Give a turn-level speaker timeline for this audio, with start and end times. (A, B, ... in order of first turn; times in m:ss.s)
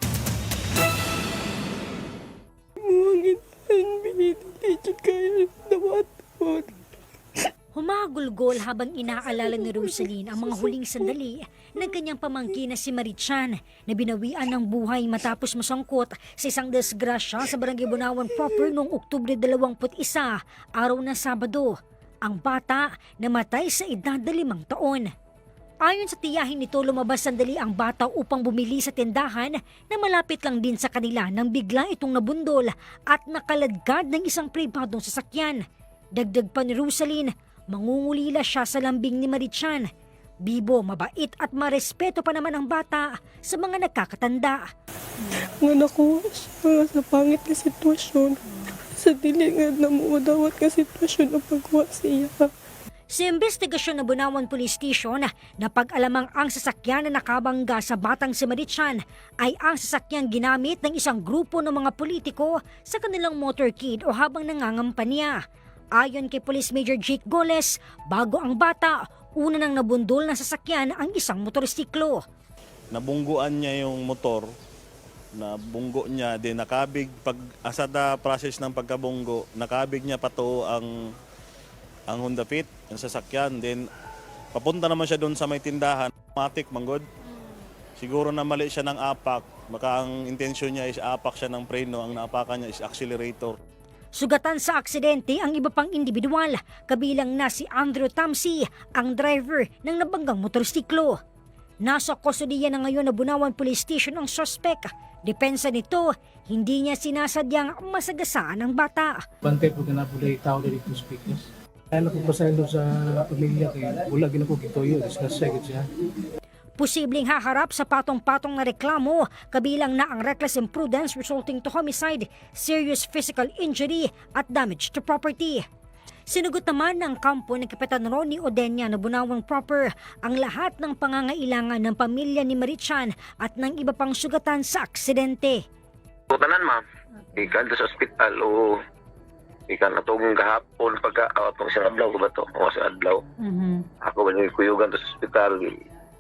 0:02.8-0:06.8 A
0:07.8-0:25.1 B
0:09.3-0:11.1 A
0:25.8-0:35.6 B
0:36.2-0:39.9 B
0:40.4-0:44.6 B
0:45.3-0:52.5 A
0:53.1-1:05.4 B
1:06.0-1:12.2 B
1:12.9-1:14.5 C
1:15.4-1:20.9 C
1:22.1-1:23.8 C
1:24.5-1:27.0 C
1:28.0-1:33.5 C
1:34.2-1:41.2 B
1:41.8-1:49.2 B
1:49.4-1:55.9 D
1:56.8-2:05.6 B
2:06.3-2:15.6 B
2:16.3-2:16.8 E
2:17.4-2:18.8 E
2:19.7-2:23.2 E
2:24.0-2:25.7 E